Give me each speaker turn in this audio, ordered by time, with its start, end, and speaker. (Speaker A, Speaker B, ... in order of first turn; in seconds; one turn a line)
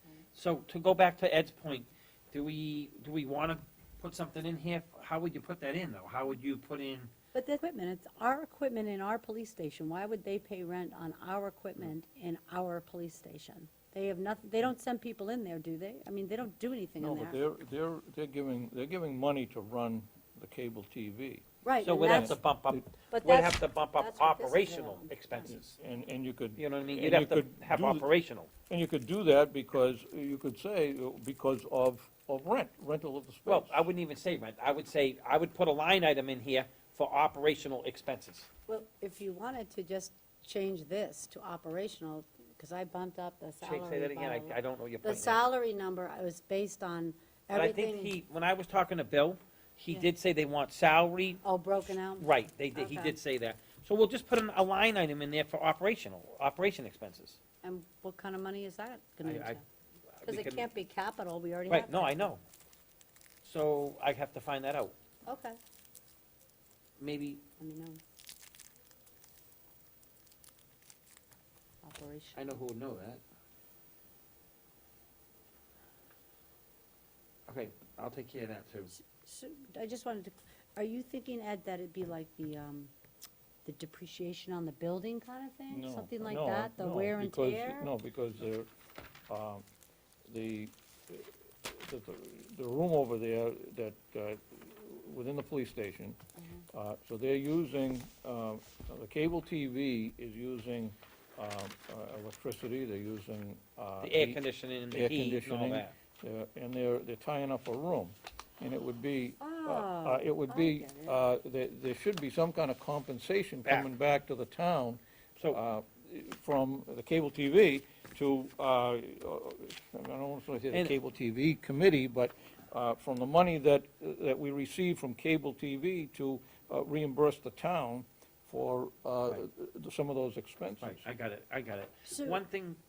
Speaker A: 0.3-7.1
Speaker B: 7.3-17.4
Speaker C: 17.0-21.4
Speaker B: 21.6-22.4
Speaker A: 21.8-25.8
Speaker C: 22.2-23.0
Speaker B: 23.0-25.6
Speaker C: 25.6-28.1
Speaker A: 26.6-28.5
Speaker C: 28.7-33.9
Speaker A: 33.5-38.5
Speaker B: 38.7-48.1
Speaker A: 43.6-45.4
Speaker A: 47.5-57.4
Speaker B: 51.4-53.2
Speaker B: 57.6-59.6
Speaker A: 59.2-59.6
Speaker A: 60.2-60.7
Speaker B: 60.2-62.3
Speaker A: 61.7-62.4
Speaker A: 63.4-65.0
Speaker B: 65.3-65.6
Speaker A: 67.0-67.4
Speaker B: 67.6-68.0
Speaker B: 71.8-72.4
Speaker A: 72.3-73.2
Speaker A: 77.5-78.9
Speaker B: 79.0-82.9
Speaker B: 83.7-87.9
Speaker C: 85.7-88.7
Speaker C: 89.3-89.6
Speaker C: 90.3-96.2
Speaker B: 96.4-96.7
Speaker C: 96.7-131.1
Speaker A: 104.0-105.9
Speaker B: 109.4-111.2
Speaker A: 130.8-132.8
Speaker B: 132.1-132.4